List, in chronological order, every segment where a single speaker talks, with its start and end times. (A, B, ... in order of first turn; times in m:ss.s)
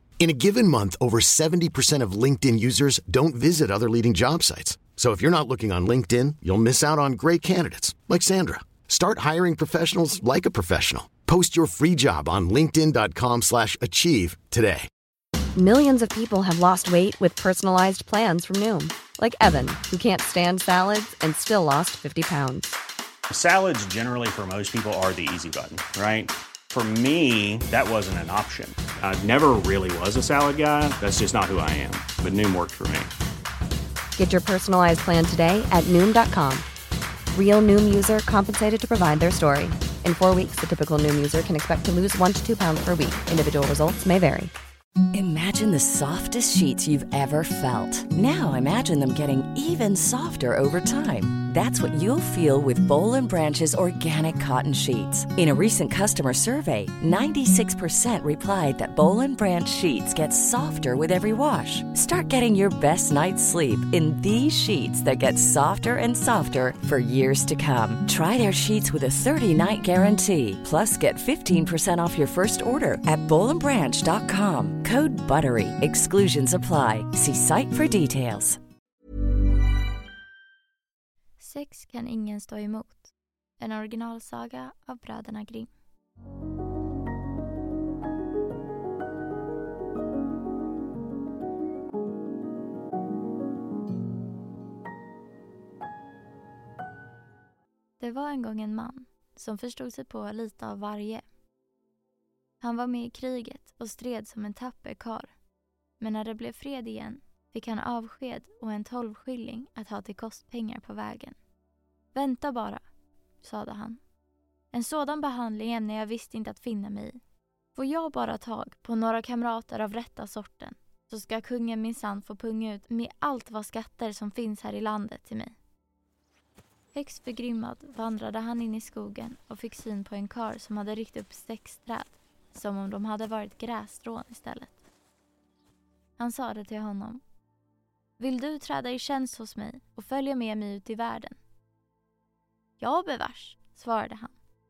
0:00.2-0:14.9 A
0:15.6-0:22.7 B
0:23.3-0:33.1 C
0:34.2-0:36.6 B
0:37.3-0:44.5 B
0:45.1-1:18.6 D
1:21.4-1:25.7 E
1:38.0-1:41.2 E
1:42.6-1:45.3 E
1:46.0-1:51.4 E
1:52.1-1:52.8 E
1:53.4-1:54.0 E
1:54.7-1:57.2 E
1:57.8-2:05.6 E
2:06.9-2:14.9 E
2:16.2-2:17.2 E
2:18.2-2:21.4 E
2:22.8-2:24.4 E